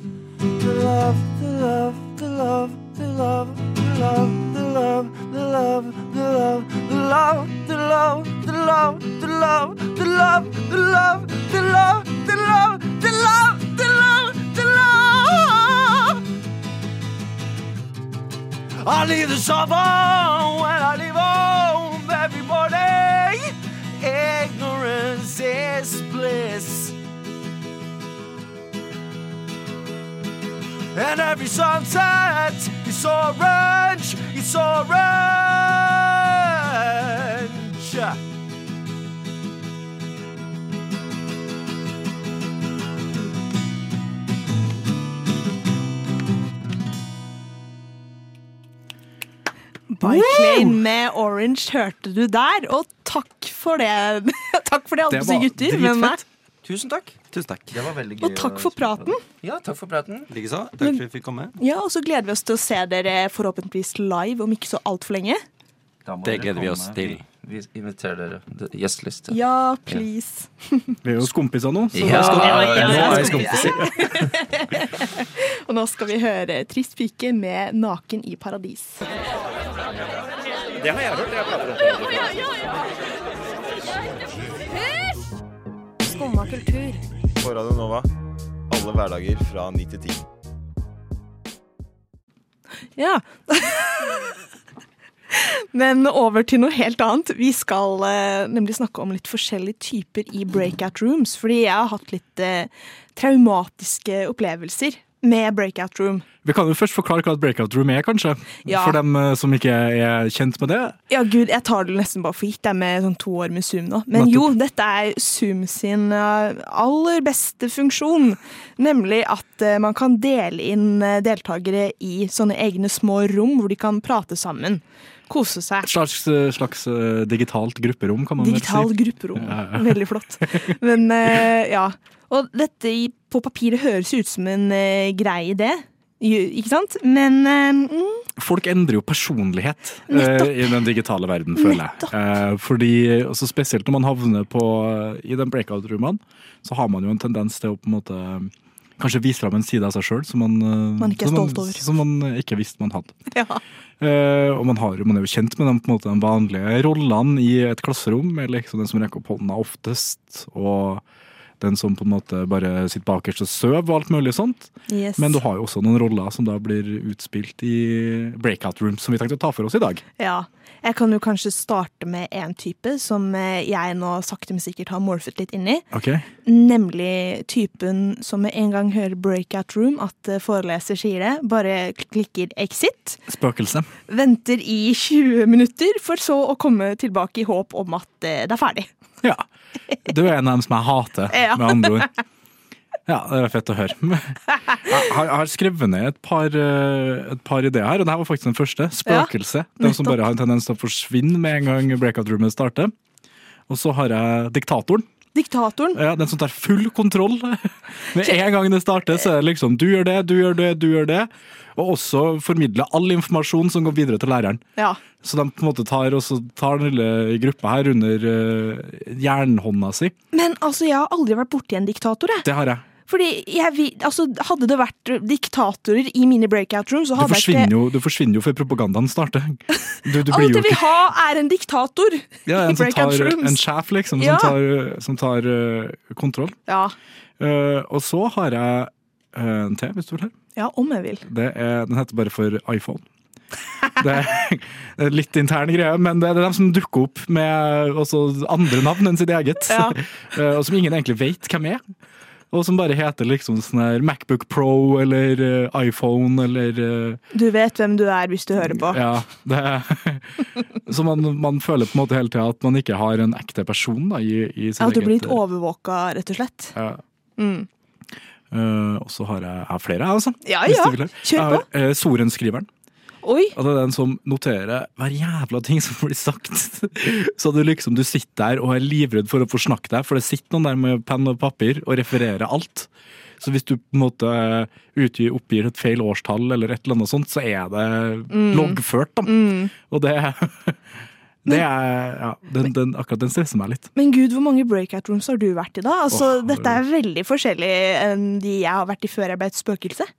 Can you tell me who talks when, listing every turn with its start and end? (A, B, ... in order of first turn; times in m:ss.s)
0:00.5-0:16.2 A
0:18.8-0:27.0 A
0:30.9-0:38.2 A
0:49.9-0:56.2 B
0:50.0-0:50.8 C
0:55.1-0:56.2 C
0:57.3-0:57.8 D
0:57.7-1:00.3 E
0:58.2-0:59.2 B
1:00.3-1:01.6 D
1:01.6-1:05.4 B
1:06.0-1:10.0 E
1:06.2-1:07.2 D
1:09.3-1:11.0 B
1:11.0-1:13.8 C
1:11.9-1:13.9 E
1:12.1-1:19.0 B
1:12.8-1:13.6 D
1:26.1-1:27.0 B
1:27.4-1:28.1 F
1:28.7-1:30.2 F
1:33.0-1:34.2 B
1:35.3-1:46.2 B
1:46.4-1:51.0 C
1:48.7-1:49.0 B
1:51.1-2:05.9 B
1:54.1-1:54.5 C
2:05.8-2:10.7 C
2:08.4-2:18.2 B
2:18.4-2:33.2 C
2:20.1-2:20.8 B
2:21.6-2:22.1 B
2:31.0-2:31.8 B
2:33.3-2:33.6 B
2:34.0-2:41.0 C
2:41.6-2:50.0 C
2:44.9-2:45.4 B
2:50.2-2:55.9 B
2:55.9-2:56.3 C
2:56.4-3:03.2 B
3:03.3-3:03.9 C
3:04.1-3:08.9 B
3:10.0-3:12.1 C
3:11.3-3:12.1 B
3:13.1-3:22.9 C
3:19.1-3:20.2 B
3:23.7-3:25.1 C
3:25.4-3:26.0 B
3:26.0-3:34.6 C
3:35.2-3:40.1 C
3:40.3-3:42.5 B
3:42.4-3:42.8 C
3:43.1-3:47.7 B
3:47.2-3:50.8 C
3:50.2-3:53.6 B
3:52.5-3:56.6 C
3:54.2-3:54.6 B
3:56.7-3:56.9 B
3:57.4-4:00.3 C
4:00.6-4:01.2 B
4:01.2-4:03.0 C
4:04.0-4:11.8 C
4:09.7-4:10.0 B
4:12.5-4:17.2 C
4:17.3-4:19.0 B
4:18.6-4:25.4 C
4:24.8-4:26.8 B
4:26.8-4:27.0 C
4:27.4-4:27.7 B
4:28.5-4:32.7 C
4:30.4-4:31.6 B
4:33.2-4:33.6 B
4:33.6-4:42.9 C
4:43.4-4:49.3 C
4:48.3-4:49.7 B
4:49.8-4:50.8 C
4:51.4-4:53.9 C
4:54.0-5:00.1 B
4:56.1-4:56.8 C